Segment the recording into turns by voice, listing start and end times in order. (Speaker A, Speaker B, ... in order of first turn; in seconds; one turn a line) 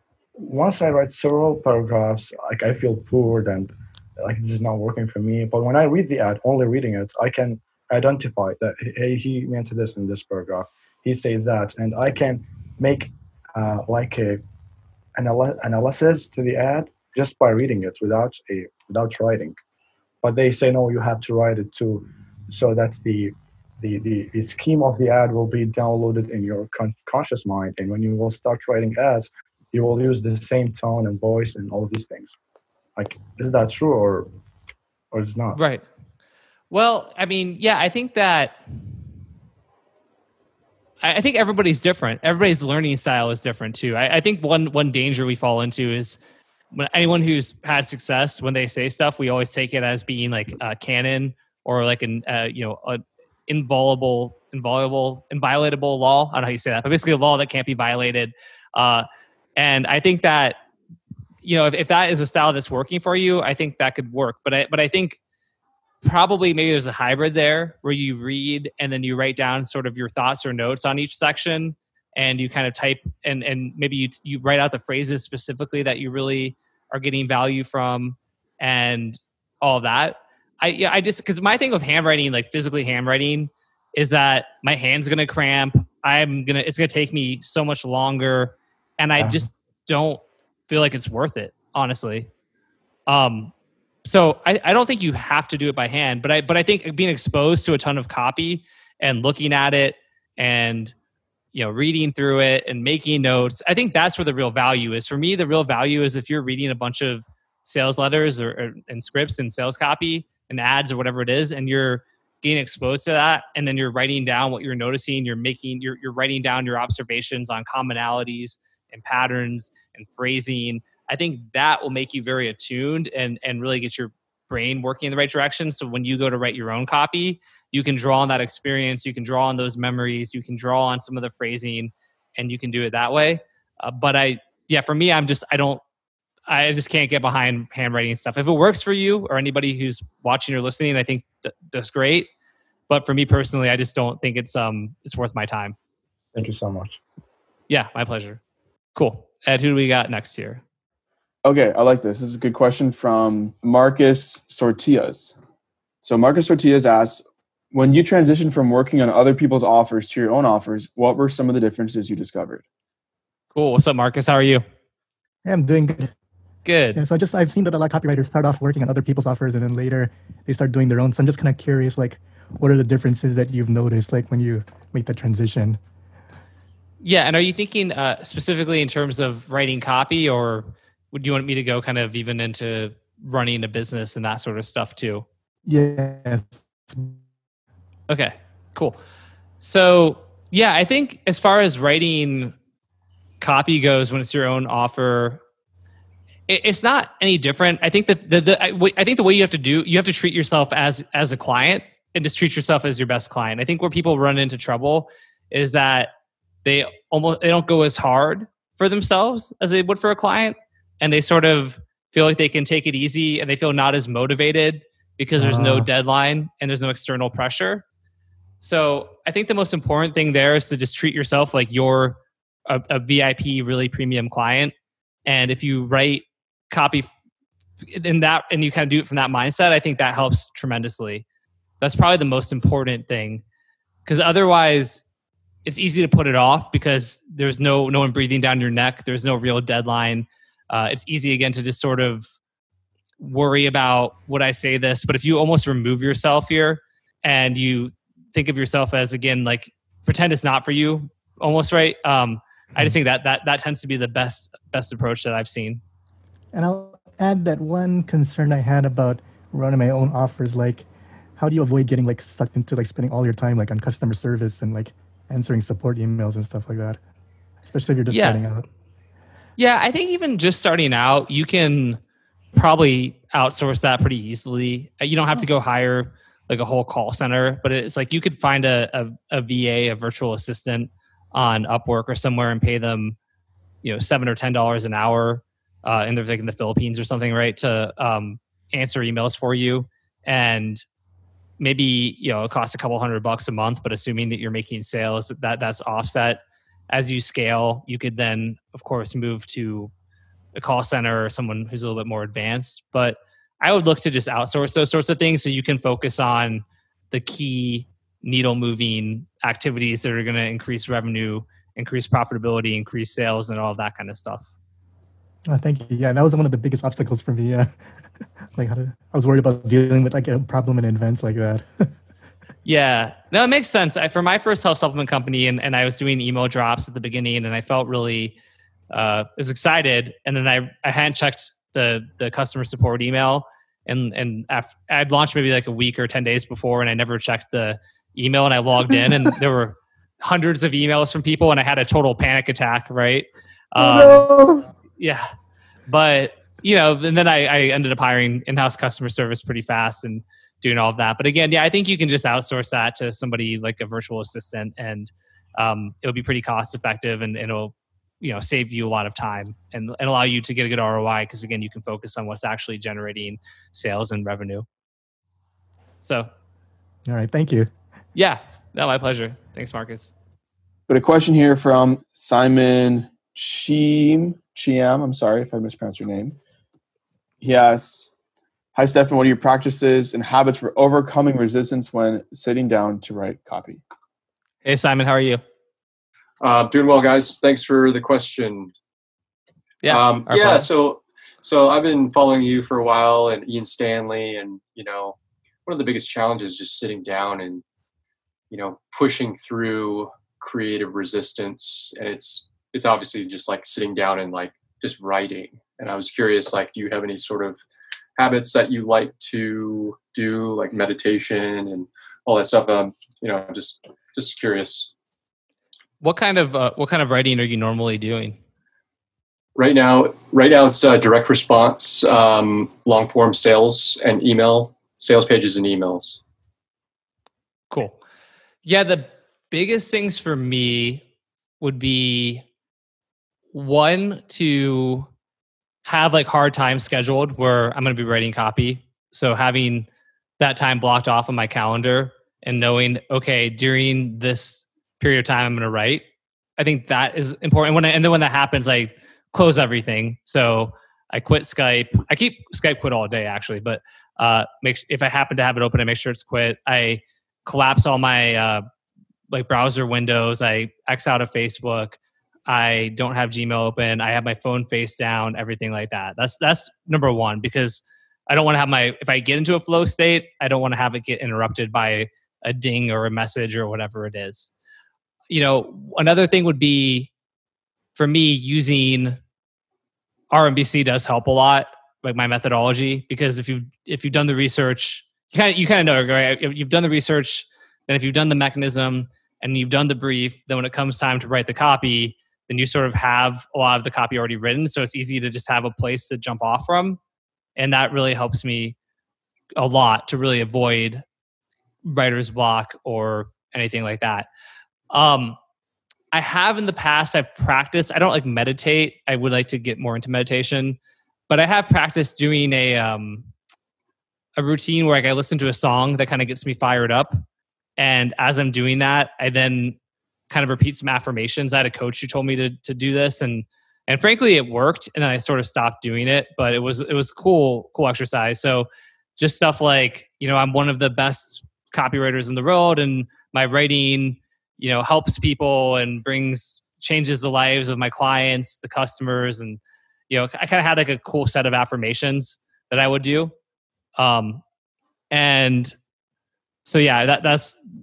Speaker A: 0.4-14.4
Speaker A: 15.2-19.6
Speaker A: 20.2-32.3
Speaker A: 33.0-34.3
Speaker A: 35.1-35.6
Speaker B: 35.5-35.8
Speaker B: 36.7-38.6
Speaker B: 41.0-46.2
Speaker B: 46.7-59.1
Speaker B: 59.6-60.6
Speaker B: 61.4-65.2
Speaker B: 66.0-92.3
Speaker C: 89.2-89.5
Speaker B: 93.1-93.5
Speaker B: 94.0-100.9
Speaker B: 101.5-135.8
Speaker B: 136.5-142.3
Speaker B: 142.9-145.8
Speaker A: 146.3-147.0
Speaker B: 147.7-148.4
Speaker B: 148.9-150.6
Speaker D: 151.4-155.4
Speaker D: 156.0-162.6
Speaker B: 163.5-164.6
Speaker C: 165.4-166.1
Speaker B: 166.7-167.0
Speaker C: 166.9-175.8
Speaker B: 177.0-185.2
Speaker C: 185.7-187.1
Speaker B: 188.1-189.0
Speaker B: 189.6-192.6
Speaker B: 193.4-195.4
Speaker B: 196.5-206.1
Speaker B: 206.6-217.8
Speaker C: 215.4-215.9
Speaker B: 218.6-224.7
Speaker B: 225.2-227.1
Speaker B: 227.9-231.2
Speaker B: 231.8-233.4
Speaker B: 234.1-235.0
Speaker B: 235.6-242.3
Speaker B: 243.2-255.8
Speaker C: 256.5-267.0
Speaker C: 267.7-268.7
Speaker B: 268.1-268.4
Speaker B: 269.6-272.0
Speaker B: 272.5-283.2
Speaker B: 283.8-290.8
Speaker B: 291.6-299.9
Speaker B: 300.6-314.5
Speaker C: 315.5-317.7
Speaker C: 318.6-321.9
Speaker B: 322.6-328.3
Speaker B: 328.9-344.3
Speaker C: 338.9-339.3
Speaker C: 343.8-344.7
Speaker B: 345.0-345.3
Speaker B: 345.9-364.7
Speaker B: 366.0-366.3
Speaker C: 367.1-367.7
Speaker B: 368.1-370.1
Speaker D: 370.9-376.4
Speaker D: 377.4-378.1
Speaker D: 378.8-383.8
Speaker B: 384.6-385.4
Speaker E: 386.4-388.7
Speaker B: 389.8-390.7
Speaker E: 389.9-397.6
Speaker E: 398.5-407.6
Speaker E: 408.2-414.9
Speaker B: 416.0-418.4
Speaker E: 419.6-426.2
Speaker B: 427.7-428.0
Speaker B: 428.6-431.0
Speaker B: 431.6-432.4
Speaker B: 433.5-435.1
Speaker B: 435.8-439.9
Speaker B: 440.4-446.1
Speaker B: 446.6-458.6
Speaker B: 459.3-474.5
Speaker B: 475.3-477.1
Speaker B: 477.9-479.2
Speaker B: 480.3-497.0
Speaker B: 497.6-498.8
Speaker B: 499.6-501.0
Speaker B: 501.8-504.3
Speaker B: 504.9-505.4
Speaker B: 506.1-510.8
Speaker B: 511.3-513.3
Speaker B: 514.4-517.2
Speaker B: 517.8-519.8
Speaker B: 520.3-543.3
Speaker B: 544.0-544.4
Speaker B: 545.1-545.8
Speaker B: 546.6-547.6